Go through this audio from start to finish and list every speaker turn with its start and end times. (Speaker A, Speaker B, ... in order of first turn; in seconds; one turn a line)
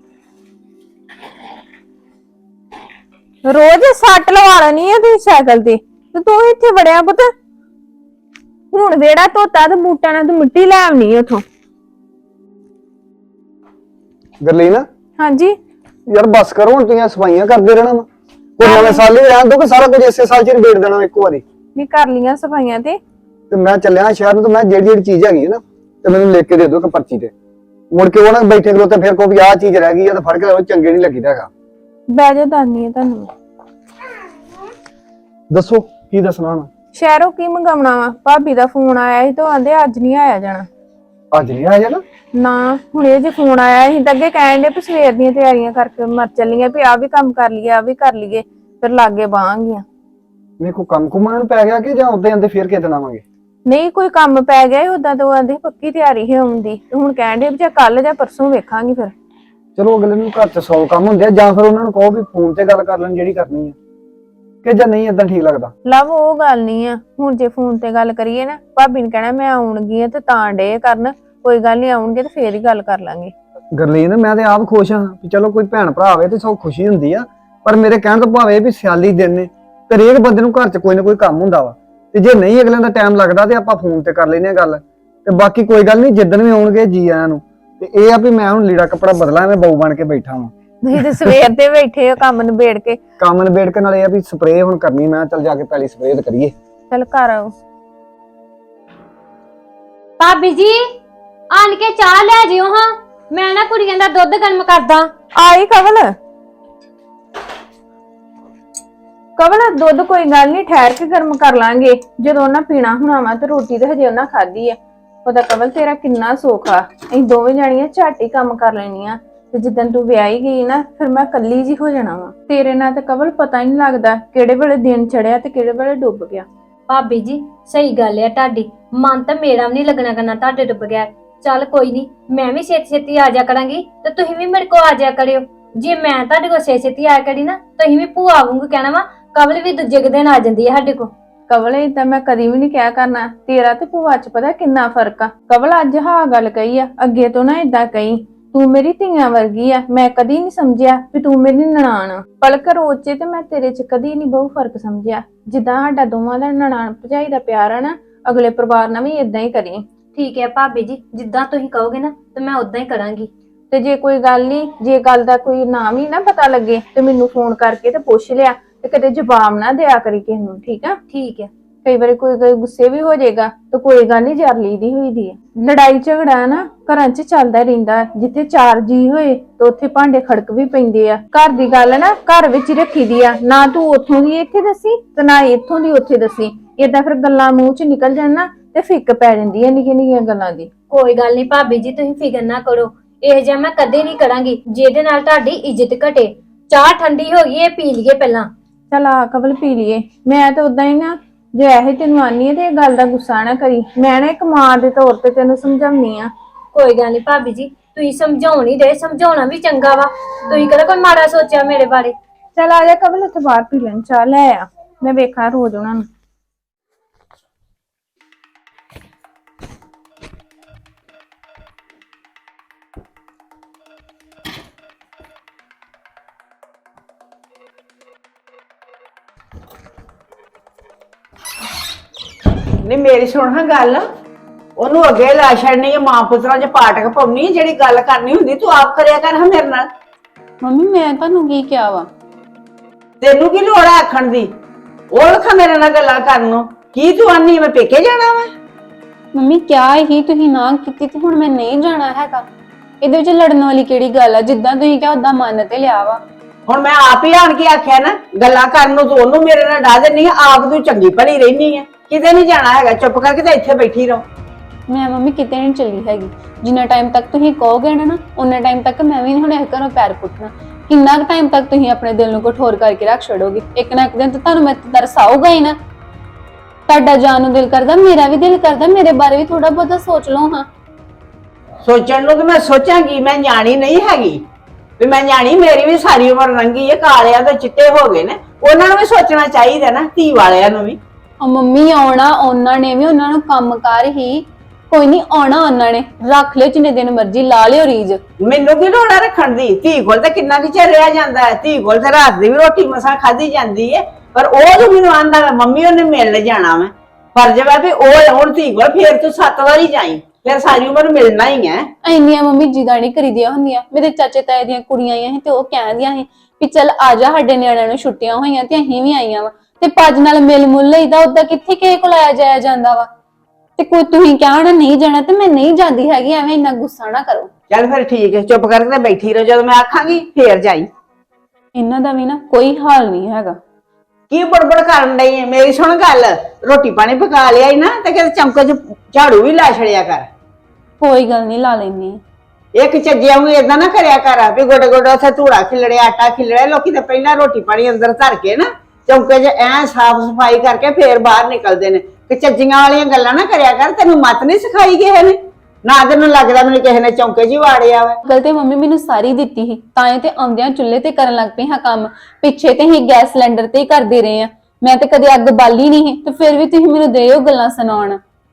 Speaker A: 3.5-7.3
Speaker A: 8.7-11.4
Speaker B: 14.4-14.9
Speaker A: 15.2-15.6
Speaker B: 16.1-18.1
Speaker B: 18.6-21.4
Speaker A: 18.6-19.1
Speaker A: 21.8-23.0
Speaker B: 23.5-27.3
Speaker B: 27.9-31.5
Speaker A: 32.1-33.3
Speaker B: 35.5-36.7
Speaker A: 36.9-40.7
Speaker B: 41.3-42.0
Speaker A: 42.4-49.8
Speaker B: 50.6-53.2
Speaker A: 53.7-59.1
Speaker B: 59.8-63.8
Speaker B: 64.6-65.7
Speaker A: 65.9-73.3
Speaker B: 73.8-90.5
Speaker A: 90.8-93.0
Speaker B: 93.2-96.5
Speaker A: 96.9-97.5
Speaker C: 100.2-100.8
Speaker C: 101.5-105.1
Speaker A: 105.4-106.1
Speaker A: 109.4-126.5
Speaker C: 126.9-141.1
Speaker A: 141.5-159.8
Speaker C: 160.2-163.3
Speaker A: 163.7-171.0
Speaker C: 171.1-171.5
Speaker A: 171.8-190.7
Speaker C: 190.9-198.5
Speaker A: 198.9-206.3
Speaker C: 206.7-212.1
Speaker A: 212.6-216.1
Speaker D: 232.8-234.0
Speaker D: 234.8-239.9
Speaker E: 240.6-242.1
Speaker D: 243.2-244.5
Speaker D: 245.1-248.5
Speaker E: 249.3-252.5
Speaker E: 253.0-256.2
Speaker D: 256.7-264.2
Speaker E: 264.9-275.8
Speaker E: 276.9-280.7
Speaker D: 281.8-284.4
Speaker D: 285.0-291.0
Speaker E: 291.4-298.2
Speaker D: 298.4-311.9
Speaker E: 312.0-323.1
Speaker E: 323.8-327.5
Speaker D: 327.7-330.9
Speaker E: 331.8-333.6
Speaker D: 334.3-340.3
Speaker E: 341.0-342.2
Speaker D: 342.8-358.2
Speaker E: 358.3-368.2